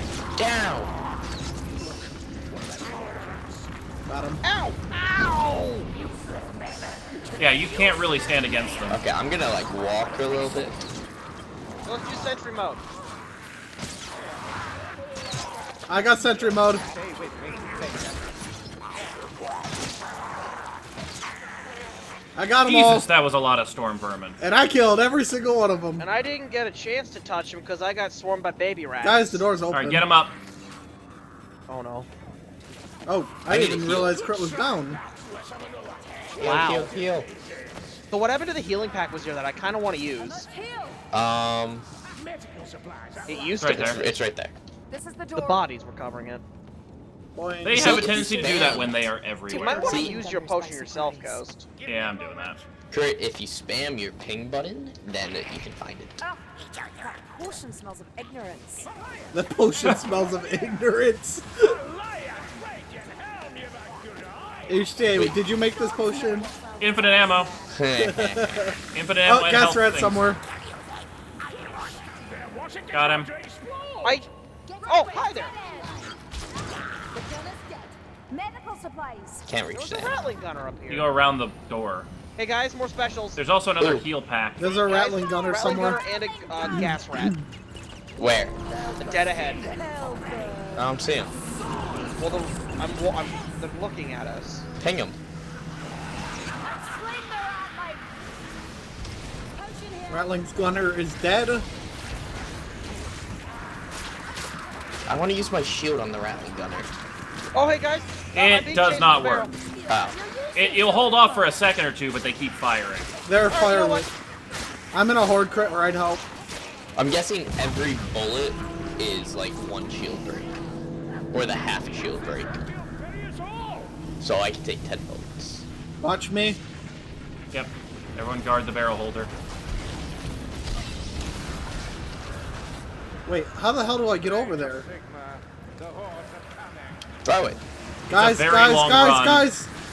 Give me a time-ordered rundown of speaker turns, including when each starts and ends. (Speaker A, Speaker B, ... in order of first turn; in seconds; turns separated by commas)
Speaker A: 0.4-0.9, Speaker B: 4.1-4.4, Speaker C: 4.4-5.7, Speaker D: 7.4-9.0, Speaker A: 8.9-10.8, Speaker C: 11.8-12.8, Speaker B: 15.9-16.8, Speaker B: 22.4-23.1, Speaker D: 22.6-24.4, Speaker B: 24.4-26.1, Speaker C: 26.0-29.4, Speaker B: 29.0-30.1, Speaker D: 29.7-30.3, Speaker C: 31.7-32.1, Speaker B: 33.1-35.0, Speaker D: 33.5-34.2, Speaker A: 36.4-37.3, Speaker C: 36.4-36.9, Speaker C: 38.1-40.5, Speaker E: 40.4-41.0, Speaker A: 41.1-41.9, Speaker C: 43.2-44.0, Speaker D: 43.6-44.0, Speaker A: 43.6-44.5, Speaker E: 44.9-45.6, Speaker C: 45.4-46.4, Speaker B: 47.3-48.2, Speaker D: 47.6-49.9, Speaker A: 47.7-48.9, Speaker C: 49.5-51.7, Speaker E: 49.6-51.4, Speaker A: 49.8-50.2, Speaker D: 51.8-52.6, Speaker A: 52.9-56.2, Speaker E: 57.0-58.9, Speaker B: 59.3-61.8, Speaker B: 64.7-66.5, Speaker A: 65.1-65.4, Speaker D: 66.8-67.5, Speaker A: 67.7-68.6, Speaker B: 68.0-70.4, Speaker D: 68.9-70.3, Speaker D: 72.9-73.3, Speaker C: 74.0-74.3, Speaker E: 74.7-76.1, Speaker C: 74.8-75.6, Speaker E: 77.1-79.4, Speaker A: 79.5-80.3, Speaker C: 79.7-81.1, Speaker D: 80.9-82.1, Speaker C: 82.3-83.4, Speaker D: 83.3-84.8, Speaker A: 83.8-84.0, Speaker B: 84.6-86.0, Speaker C: 84.8-87.3, Speaker B: 86.7-87.4, Speaker A: 88.2-89.7, Speaker E: 88.8-90.9, Speaker C: 89.0-89.7, Speaker A: 90.7-91.3, Speaker C: 92.2-94.7, Speaker A: 94.8-95.2, Speaker E: 96.7-98.0, Speaker E: 99.6-100.2, Speaker B: 100.1-101.7, Speaker A: 105.1-106.9, Speaker C: 107.5-109.5, Speaker D: 108.3-109.5, Speaker A: 109.9-110.2, Speaker E: 109.9-111.0, Speaker D: 110.5-113.1, Speaker B: 113.2-114.1, Speaker C: 113.5-114.1, Speaker B: 114.9-116.2, Speaker A: 116.9-120.5, Speaker A: 121.3-122.6, Speaker A: 124.2-125.7, Speaker B: 126.0-126.6, Speaker D: 127.5-129.3, Speaker B: 133.2-134.9, Speaker A: 137.2-137.6, Speaker B: 138.1-139.7, Speaker D: 138.1-139.5